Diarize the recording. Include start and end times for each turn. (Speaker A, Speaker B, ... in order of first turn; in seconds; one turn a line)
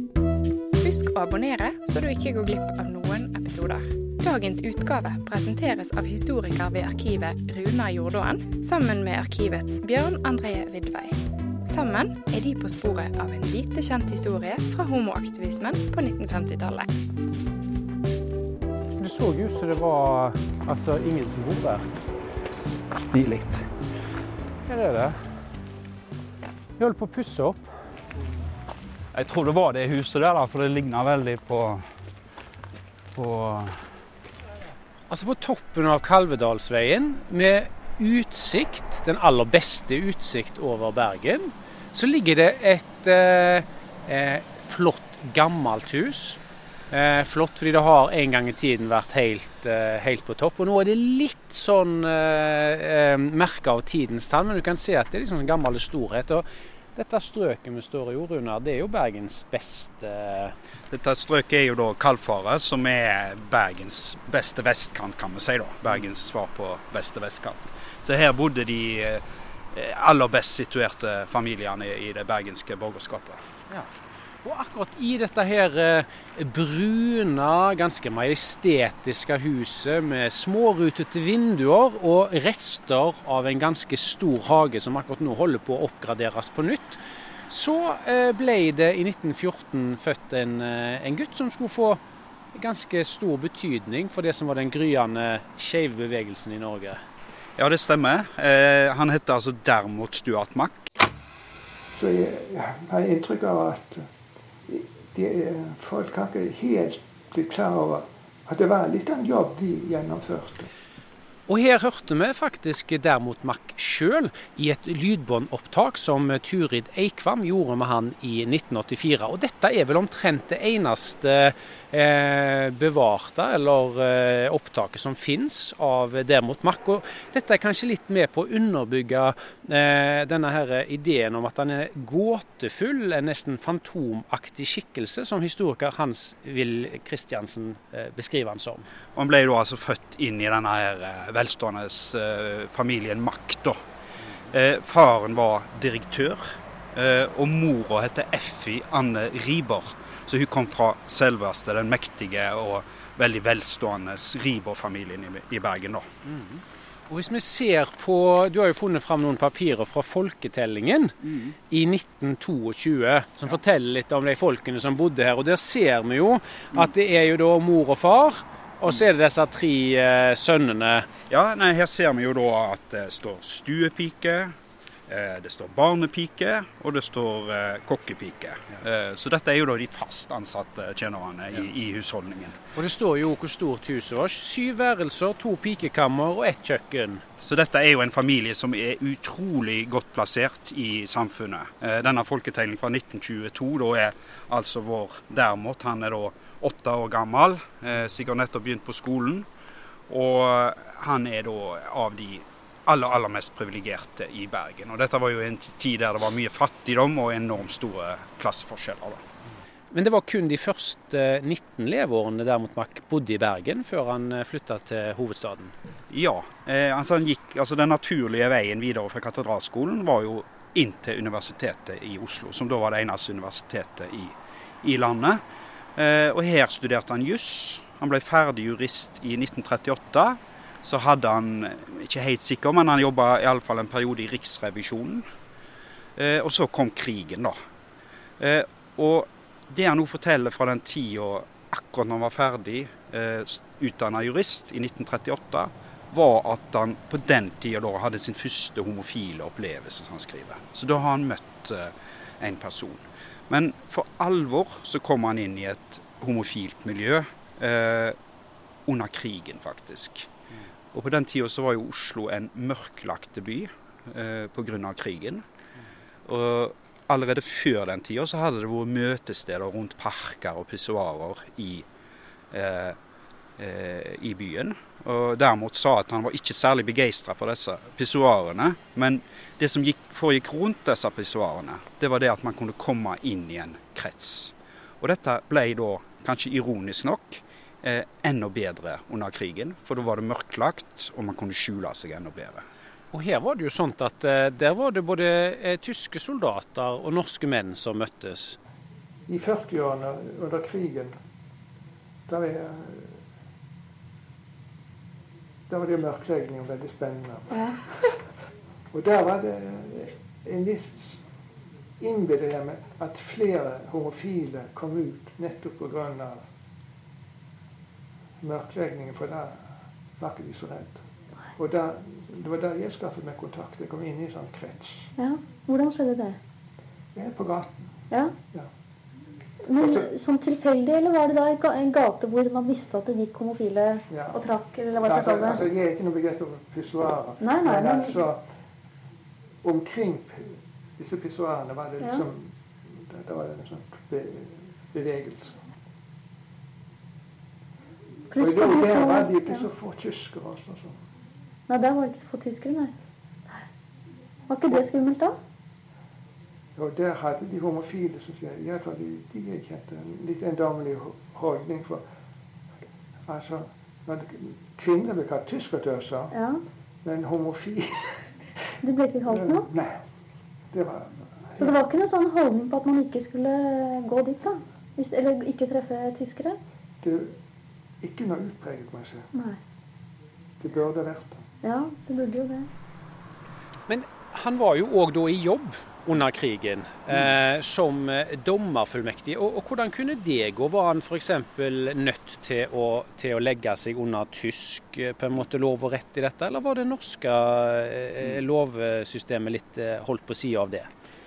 Speaker A: 0.8-11.1
Speaker A: 11.7-16.9
Speaker B: 19.0-22.0
Speaker C: 22.9-23.6
Speaker B: 24.6-25.4
Speaker B: 26.8-27.8
Speaker C: 29.1-31.8
Speaker C: 33.1-33.9
Speaker B: 35.1-46.4
Speaker B: 46.9-60.5
Speaker C: 60.9-73.4
Speaker B: 73.7-92.0
Speaker B: 92.5-97.0
Speaker C: 97.6-100.9
Speaker D: 101.9-104.1
Speaker D: 104.7-110.7
Speaker B: 111.5-138.9
Speaker C: 139.1-143.8
Speaker C: 144.5-156.1
Speaker B: 156.2-171.1
Speaker C: 171.3-174.6
Speaker C: 175.1-182.6
Speaker B: 182.7-187.2
Speaker C: 187.4-199.5
Speaker C: 200.1-209.2
Speaker B: 209.9-215.7
Speaker C: 216.1-225.4
Speaker C: 225.9-235.2
Speaker C: 236.2-237.6
Speaker C: 238.4-258.2
Speaker C: 258.9-260.3
Speaker C: 260.9-265.4
Speaker C: 266.2-271.9
Speaker C: 272.5-273.0
Speaker C: 273.6-292.6
Speaker B: 293.1-298.6
Speaker D: 299.3-301.1
Speaker D: 302.3-303.2
Speaker D: 305.7-308.1
Speaker E: 307.5-307.8
Speaker D: 308.9-311.2
Speaker D: 312.0-316.4
Speaker D: 318.4-319.6
Speaker D: 320.2-321.0
Speaker D: 321.5-325.1
Speaker E: 325.1-326.4
Speaker D: 327.1-328.0
Speaker E: 328.1-328.3
Speaker E: 329.6-335.6
Speaker D: 334.1-334.4
Speaker D: 335.0-338.4
Speaker E: 337.4-338.2
Speaker D: 339.6-345.6
Speaker E: 342.0-342.3
Speaker E: 348.3-349.7
Speaker D: 348.4-351.0
Speaker E: 351.7-352.9
Speaker E: 354.5-355.4
Speaker D: 356.8-362.0
Speaker D: 363.3-366.3
Speaker E: 366.3-366.6
Speaker D: 367.0-368.3
Speaker E: 368.8-369.7
Speaker D: 369.3-370.0
Speaker D: 370.7-371.8
Speaker E: 371.6-376.6
Speaker D: 377.0-377.3
Speaker D: 378.0-379.3
Speaker E: 379.3-379.6
Speaker D: 380.6-381.4
Speaker E: 381.6-382.7
Speaker B: 383.9-400.9